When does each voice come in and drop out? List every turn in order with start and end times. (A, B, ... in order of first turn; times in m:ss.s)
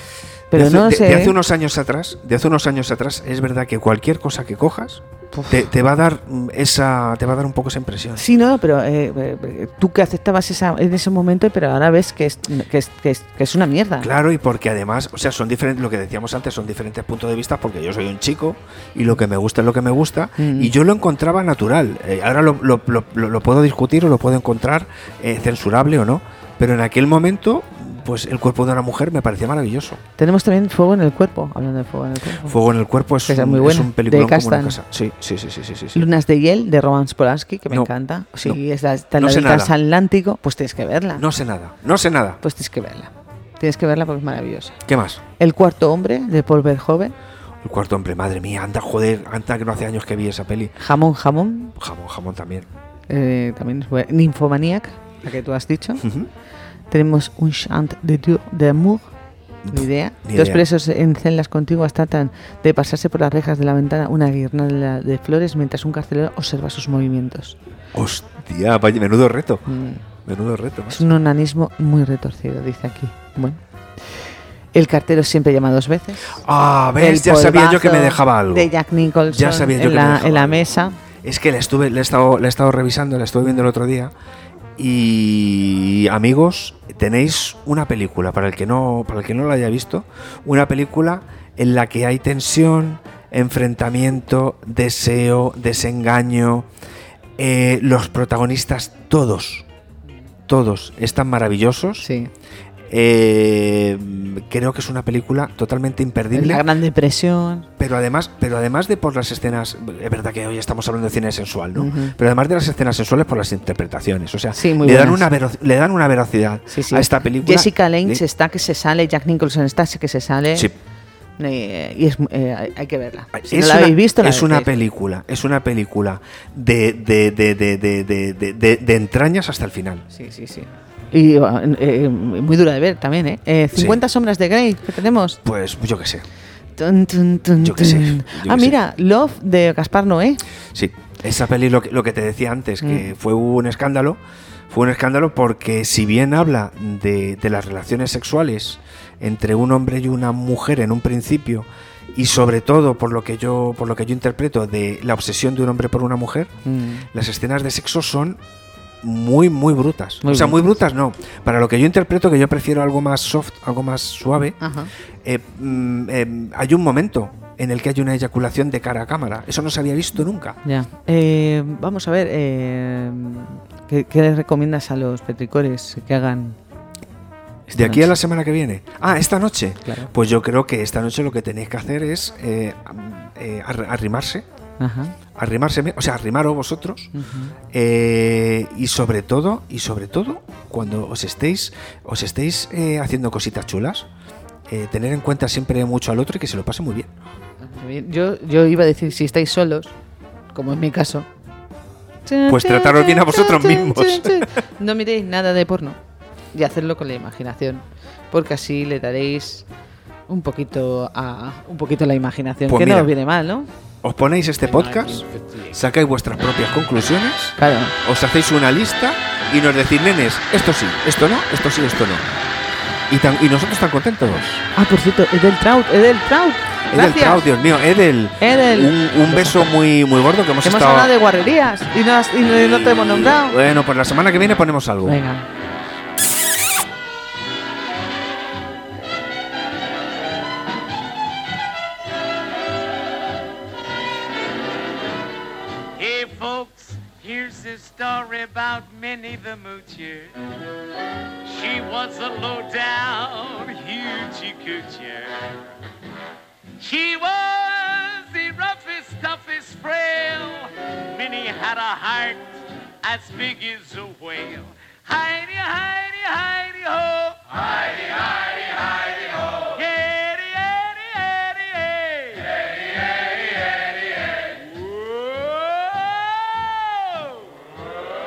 0:00.5-0:01.4 A
0:00.5-0:08.2 B
0:05.3-0:05.7 A
0:08.2-0:14.1 A
0:14.0-0:30.0 B
0:20.4-0:20.7 A
0:30.2-0:32.6 A
0:32.4-0:36.0 B
0:33.2-0:34.8 A
0:35.9-0:41.2 A
0:39.2-0:39.7 B
0:41.2-0:42.4 B
0:42.4-0:44.8 A
0:44.9-0:45.2 B
0:45.4-0:47.1 A
0:47.6-0:50.7 B
0:50.8-0:51.8 A
0:51.8-0:52.6 B
0:53.1-0:56.0 A
0:56.0-0:56.3 B
0:56.9-0:59.1 A
0:59.6-1:00.6 B
0:59.7-1:07.6 A
1:07.9-1:09.6 B
1:09.7-1:10.0 A
1:10.2-1:11.0 B
1:10.9-1:16.4 A
1:16.4-1:18.7 B
1:17.0-1:21.0 A
1:19.3-1:24.1 B
1:24.8-1:36.7 B
1:37.4-1:39.6 B
1:40.5-1:42.1 B
1:42.0-1:42.3 A
1:42.9-1:46.6 B
1:46.3-1:47.7 A
1:47.8-1:58.2 B
1:51.7-1:52.2 A
1:54.5-1:55.2 A
1:56.7-2:00.7 A
2:01.4-2:04.7 A
2:03.3-2:10.0 B
2:10.1-2:15.4 A
2:13.7-2:14.0 B
2:15.4-2:16.2 B
2:16.8-2:20.4 A
2:17.6-2:18.8 B
2:20.7-2:24.2 B
2:22.8-2:23.1 A
2:24.7-2:36.5 B
2:36.6-2:37.1 A
2:37.1-2:38.4 B
2:39.0-2:44.6 B
2:40.2-2:40.7 A
2:44.6-2:44.9 A
2:45.2-2:50.6 B
2:50.6-2:56.6 A
2:57.7-2:58.1 A
2:57.7-3:04.4 B
2:59.8-3:00.1 A
3:04.8-3:05.2 A
3:05.3-3:07.1 B
3:07.1-3:07.6 A
3:07.7-3:14.1 B
3:14.7-3:17.1 B
3:17.6-3:19.9 A
3:20.5-3:21.3 A
3:22.2-3:26.0 A
3:22.5-3:24.6 B
3:26.5-3:29.6 A
3:30.3-3:33.7 A
3:32.7-3:33.1 B
3:34.0-3:42.2 B
3:34.7-3:35.8 C
3:37.6-3:38.0 A
3:43.1-3:44.6 B
3:44.7-3:47.5 A
3:46.9-3:51.1 B
3:48.4-3:49.7 A
3:50.6-3:53.6 A
3:52.5-3:55.2 B
3:55.0-3:55.5 A
4:06.0-4:10.4 C
4:11.4-4:15.5 C
4:16.8-4:37.4 C